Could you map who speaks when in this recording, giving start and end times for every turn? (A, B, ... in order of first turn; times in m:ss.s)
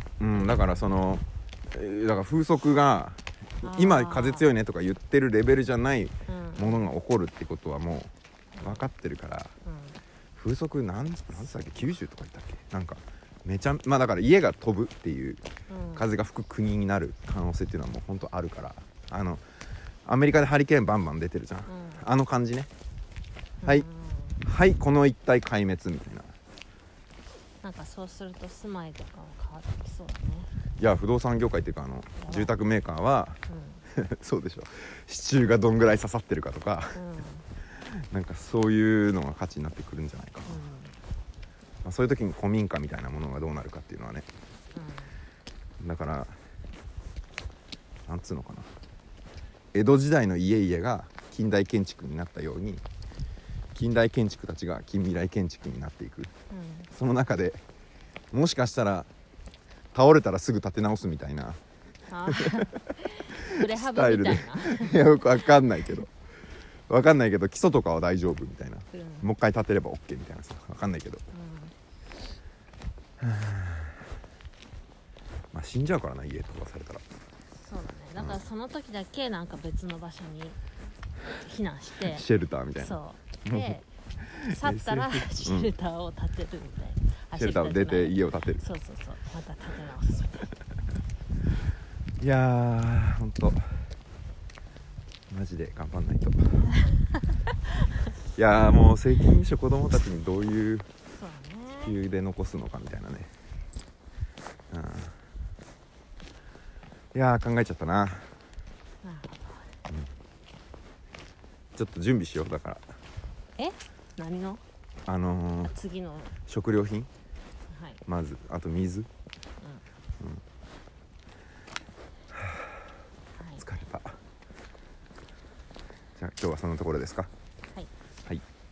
0:00.2-0:09.5 A
0:00.3-0:00.7 B
0:03.6-0:04.5 B
0:06.3-0:06.9 B
0:08.6-0:08.8 B
0:09.6-0:10.0 B
0:10.4-0:15.4 A
0:15.7-0:16.1 B
0:16.0-0:19.4 A
0:20.0-0:22.7 A
0:21.7-0:22.0 B
0:23.6-0:24.4 B
0:24.4-0:26.3 A
0:27.6-0:30.5 B
0:30.8-0:33.4 A
0:32.2-0:32.5 B
0:33.5-0:33.8 B
0:33.9-0:37.0 A
0:37.0-0:37.5 B
0:37.8-0:40.6 A
0:40.5-0:41.0 B
0:41.8-0:44.3 A
0:44.7-0:45.1 B
0:45.8-0:46.4 A
0:48.1-0:48.7 A
0:49.7-0:52.8 A
0:53.7-0:56.3 A
0:56.5-0:56.9 B
0:56.9-0:57.6 A
0:58.3-0:59.1 A
0:59.9-1:01.6 A
1:02.1-1:05.2 B
1:02.4-1:02.7 A
1:03.4-1:06.1 A
1:06.9-1:11.2 A
1:08.9-1:09.3 B
1:11.3-1:11.7 B
1:13.2-1:14.0 A
1:15.5-1:17.0 A
1:17.5-1:20.6 B
1:18.2-1:18.4 A
1:21.4-1:22.2 B
1:22.0-1:25.7 A
1:22.8-1:23.9 B
1:24.4-1:30.5 B
1:27.4-1:28.6 A
1:32.2-1:33.7 A
1:35.3-1:36.7 A
1:38.4-1:40.9 A
1:41.2-1:42.0 B
1:41.8-1:43.3 A
1:44.7-1:45.2 A
1:47.1-1:48.3 A
1:49.0-1:49.7 B
1:51.8-1:52.8 A
1:53.6-1:54.6 B
1:55.1-1:55.8 A
1:55.7-1:56.3 B
1:56.5-1:57.1 A
1:57.7-1:58.0 B
1:58.1-1:59.1 A
2:02.3-2:02.7 A
2:03.4-2:03.6 B
2:03.6-2:04.2 A
2:06.2-2:07.3 A